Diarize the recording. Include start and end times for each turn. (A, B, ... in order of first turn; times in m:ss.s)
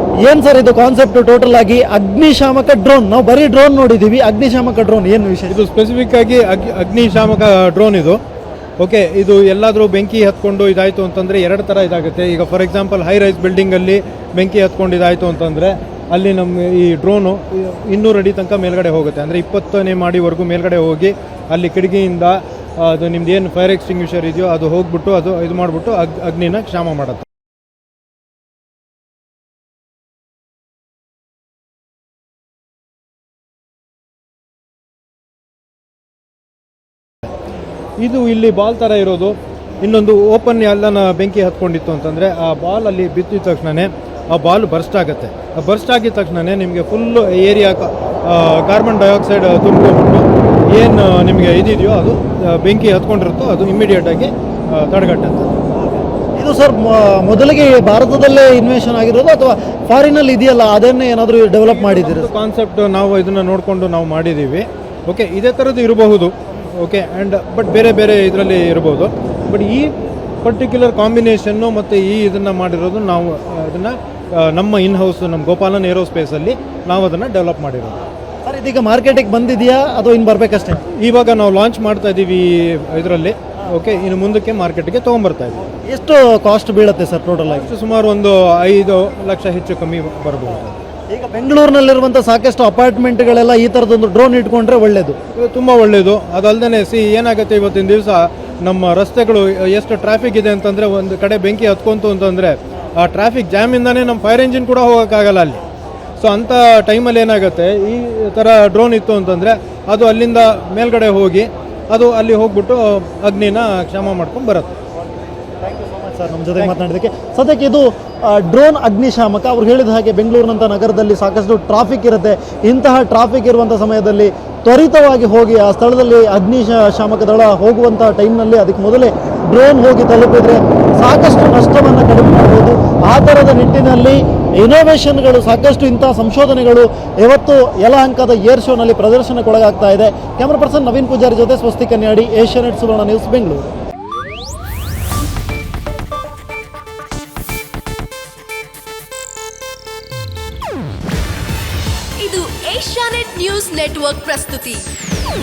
0:00.2-0:05.5 A
0:05.5-0:08.2 B
0:08.8-0:27.2 B
0:38.0-0:55.5 B
0:56.4-1:02.3 A
1:01.6-1:18.0 B
1:18.4-1:20.8 A
1:20.9-1:25.6 B
1:25.9-1:27.7 A
1:27.5-1:30.8 B
1:31.1-1:35.2 A
1:35.4-1:45.6 B
1:46.2-1:54.7 B
1:55.6-2:23.7 A
2:32.2-2:34.8 C